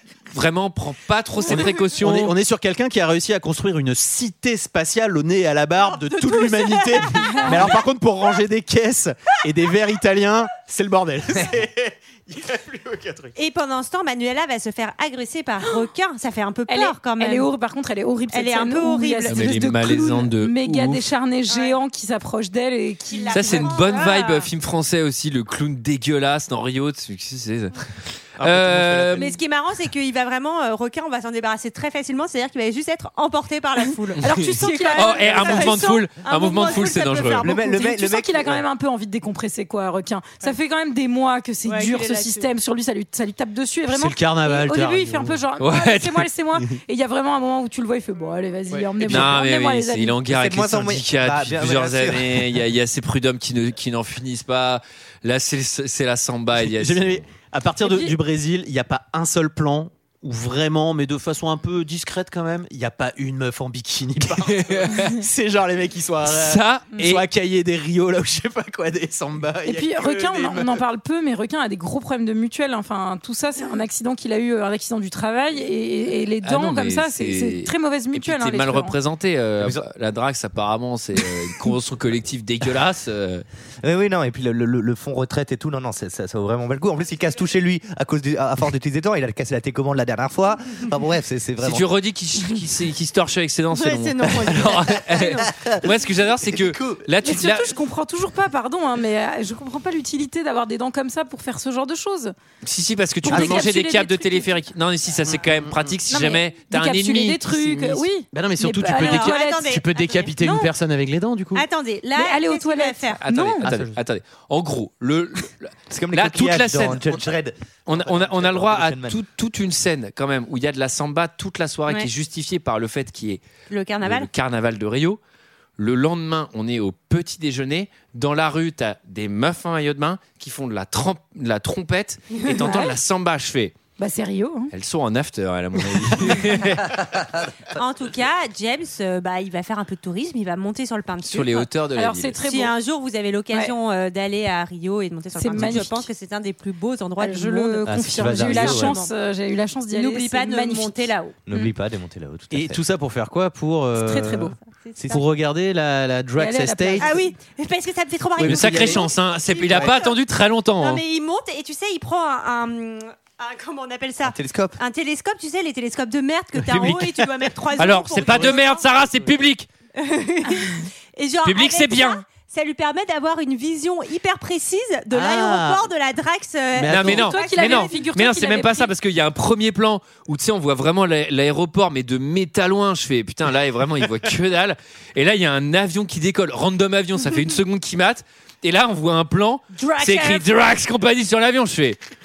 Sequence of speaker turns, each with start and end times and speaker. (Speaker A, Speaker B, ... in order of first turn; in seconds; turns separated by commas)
Speaker A: 0.3-2.3, Speaker B: 1.4-13.3, Speaker C: 6.1-7.7, Speaker D: 7.2-7.5, Speaker C: 13.3-17.5, Speaker D: 16.7-24.2, Speaker C: 18.3-19.7, Speaker A: 19.3-21.1, Speaker C: 21.5-21.8, Speaker C: 23.1-24.5, Speaker A: 23.3-29.3, Speaker B: 28.4-29.2, Speaker C: 29.1-37.5, Speaker D: 34.2-35.7, Speaker A: 35.0-37.5, Speaker E: 37.4-38.6, Speaker D: 37.4-50.2, Speaker C: 41.6-42.5, Speaker B: 43.9-45.4, Speaker A: 45.6-46.3, Speaker B: 48.7-49.3, Speaker A: 49.1-57.0, Speaker E: 50.3-52.5, Speaker B: 56.6-70.8, Speaker D: 57.8-58.1, Speaker A: 64.4-65.2, Speaker A: 66.2-67.2, Speaker D: 69.6-79.0, Speaker A: 76.4-83.4, Speaker E: 79.6-79.8, Speaker E: 83.8-91.9, Speaker A: 91.6-97.7, Speaker C: 93.7-95.5, Speaker E: 95.1-97.1, Speaker D: 97.2-102.3, Speaker A: 102.6-108.0, Speaker D: 103.2-104.5, Speaker B: 103.3-103.6, Speaker B: 105.3-105.8, Speaker D: 106.1-109.7, Speaker B: 108.3-111.7, Speaker C: 108.8-110.6, Speaker D: 110.4-110.7, Speaker C: 111.5-113.2, Speaker D: 112.2-113.6, Speaker A: 113.2-117.2, Speaker B: 113.6-114.0, Speaker E: 115.9-119.2, Speaker A: 117.8-123.4, Speaker C: 123.7-124.3, Speaker A: 124.0-125.2, Speaker A: 125.8-133.7, Speaker D: 132.6-132.9, Speaker D: 134.0-134.7, Speaker A: 134.7-137.0, Speaker C: 137.7-141.7, Speaker A: 141.3-142.4, Speaker D: 141.9-142.7, Speaker C: 142.4-149.1, Speaker D: 145.3-146.1, Speaker D: 147.2-151.7, Speaker E: 147.8-149.0, Speaker C: 149.9-151.4, Speaker E: 151.4-152.8, Speaker B: 152.5-154.5, Speaker D: 153.9-154.5, Speaker C: 154.7-155.2, Speaker B: 155.1-157.2, Speaker D: 156.4-157.3, Speaker C: 157.0-160.2, Speaker B: 158.4-159.1, Speaker A: 158.4-161.0, Speaker B: 159.7-159.9, Speaker C: 160.8-168.8, Speaker E: 164.2-164.8, Speaker B: 166.6-167.2, Speaker A: 167.8-169.7, Speaker B: 168.2-168.6, Speaker C: 170.0-178.0, Speaker A: 171.4-172.2, Speaker B: 175.1-175.8, Speaker B: 176.8-177.3, Speaker A: 176.9-192.0, Speaker D: 177.1-178.9, Speaker C: 189.7-190.5